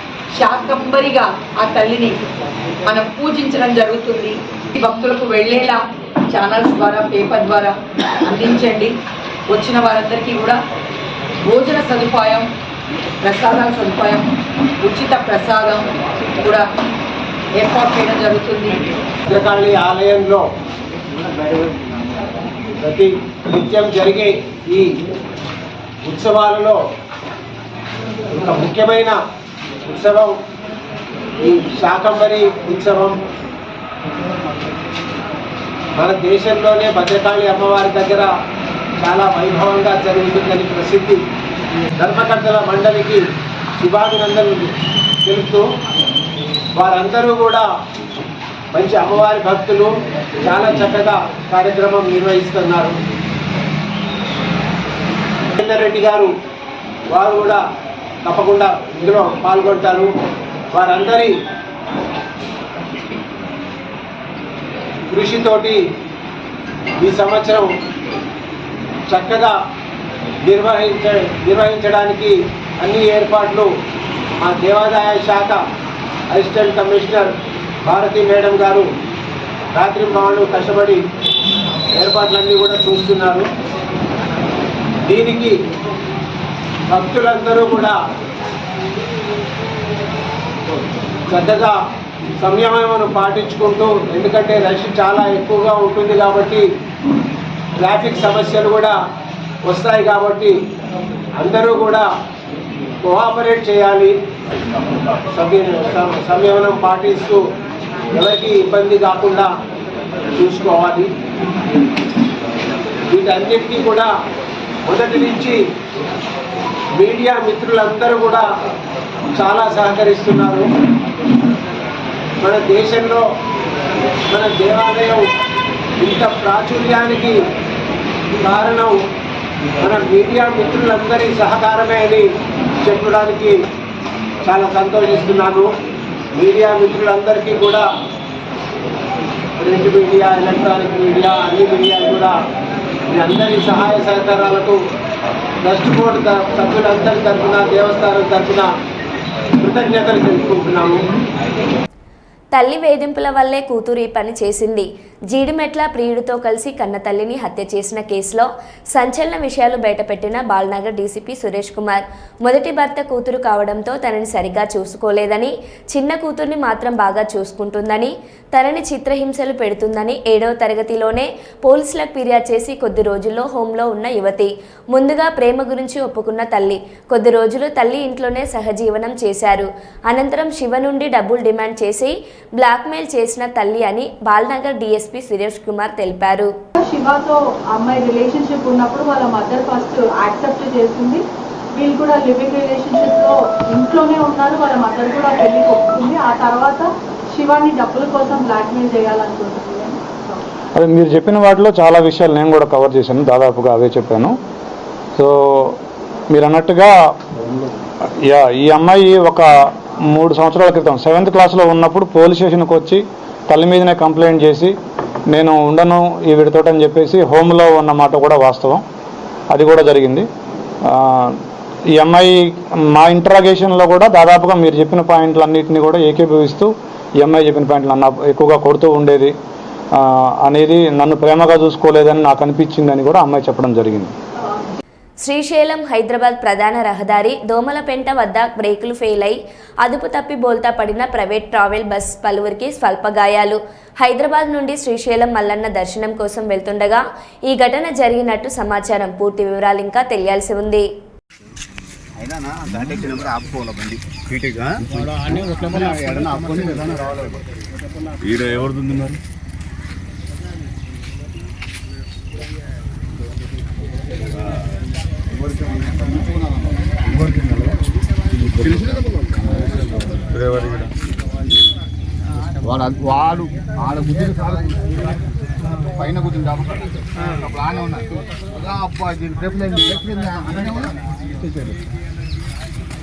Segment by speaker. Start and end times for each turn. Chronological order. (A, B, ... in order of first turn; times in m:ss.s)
0:00.4-0:02.2 A
0:02.9-0:05.8 A
0:06.3-0:07.7 A
0:08.2-0:08.9 A
0:09.5-0:10.6 A
0:11.5-0:12.5 A
0:13.2-0:14.3 A
0:14.8-0:15.9 A
0:16.4-0:16.7 A
0:17.6-0:18.8 A
0:19.3-0:20.4 B
0:22.8-0:25.0 B
0:26.0-0:26.8 B
0:28.3-0:29.2 B
0:29.9-0:30.4 B
0:31.4-0:33.2 B
0:36.0-0:38.3 B
0:39.0-0:41.2 B
0:42.0-0:43.2 B
0:43.8-0:44.7 B
0:45.3-0:45.7 B
0:46.8-0:47.7 B
0:48.7-0:49.9 B
0:50.4-0:53.0 B
0:55.6-0:56.3 B
0:57.1-0:57.6 B
0:58.2-1:00.1 B
1:00.7-1:01.4 B
1:05.1-1:05.8 B
1:07.0-1:07.7 B
1:09.1-1:09.6 B
1:10.5-1:13.7 B
1:14.4-1:15.6 B
1:16.3-1:17.3 B
1:17.8-1:18.9 B
1:19.8-1:21.0 B
1:22.0-1:23.5 B
1:25.1-1:25.6 B
1:26.9-1:28.0 B
1:31.3-1:31.8 B
1:32.4-1:36.7 B
1:37.8-1:39.0 B
1:39.7-1:40.6 B
1:41.4-1:42.1 B
1:43.0-1:44.1 B
1:45.3-1:47.4 B
1:48.2-1:49.5 B
1:50.4-1:51.1 B
1:53.1-1:54.1 B
1:54.9-1:55.6 B
1:57.0-1:58.5 B
1:59.4-2:00.7 B
2:02.4-2:03.2 B
2:04.3-2:05.3 B
2:06.0-2:07.4 B
2:08.4-2:09.0 B
2:09.8-2:12.3 B
2:12.8-2:13.6 B
2:14.5-2:15.7 B
2:16.4-2:17.9 B
2:19.6-2:22.4 B
2:23.1-2:24.8 B
2:25.6-2:28.7 B
2:29.6-2:31.1 B
2:32.6-3:06.5 C
3:06.8-3:11.2 D
3:11.8-3:20.4 D
3:20.8-3:24.4 E
3:25.2-3:25.8 E
3:26.3-3:26.9 E
3:28.2-3:29.5 E
3:30.1-3:34.7 E
3:35.3-3:38.8 E
3:39.5-3:40.3 E
3:40.8-3:41.4 E
3:42.0-3:49.3 E
3:50.0-3:54.2 E
3:55.2-4:10.9 C
4:12.2-4:14.0 F
4:14.3-4:14.8 G
4:14.8-4:17.4 F
4:18.2-4:19.2 G
4:25.3-4:27.8 F
4:28.6-4:29.0 F
4:29.5-4:29.9 F
4:30.4-4:30.9 G
4:32.6-4:35.2 F
4:35.9-4:41.8 F